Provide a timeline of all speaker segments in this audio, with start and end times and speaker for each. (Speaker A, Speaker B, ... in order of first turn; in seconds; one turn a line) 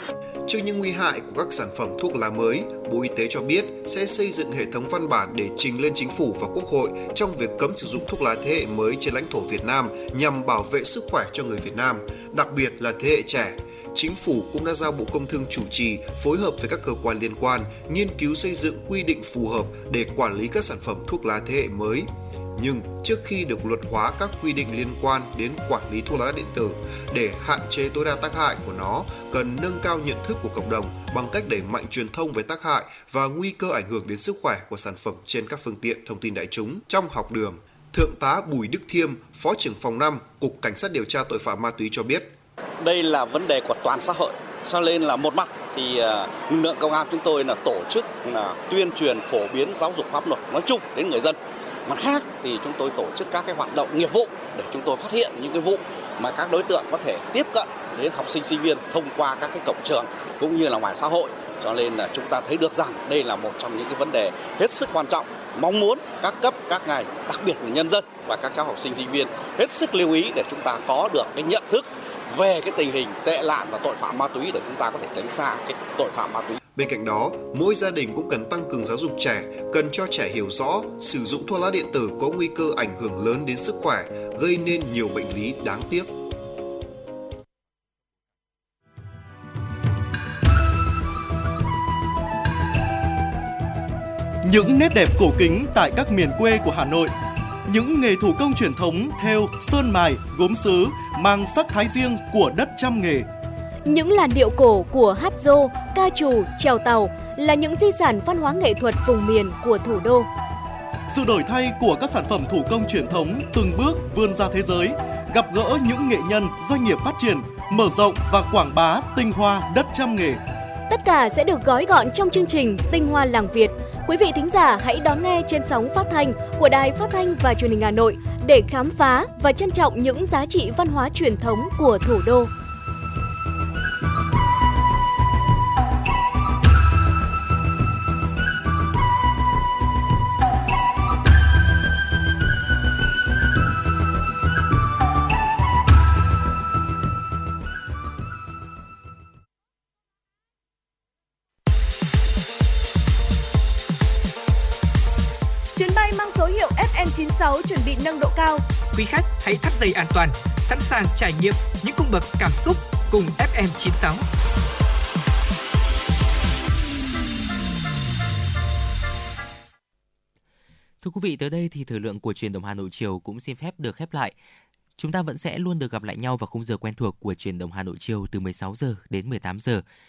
Speaker A: 0.5-42.3
Speaker B: 42.8-51.3
Speaker B: 51.9-76.5
Speaker A: 76.8-86.1
Speaker C: 94.4-97.1
Speaker C: 97.7-103.3
Speaker D: 103.8-110.3
Speaker C: 111.1-120.4
Speaker D: 120.9-132.5
Speaker D: 155.8-158.6
Speaker E: 158.9-164.2
Speaker F: 171.0-174.3
Speaker F: 175.0-179.8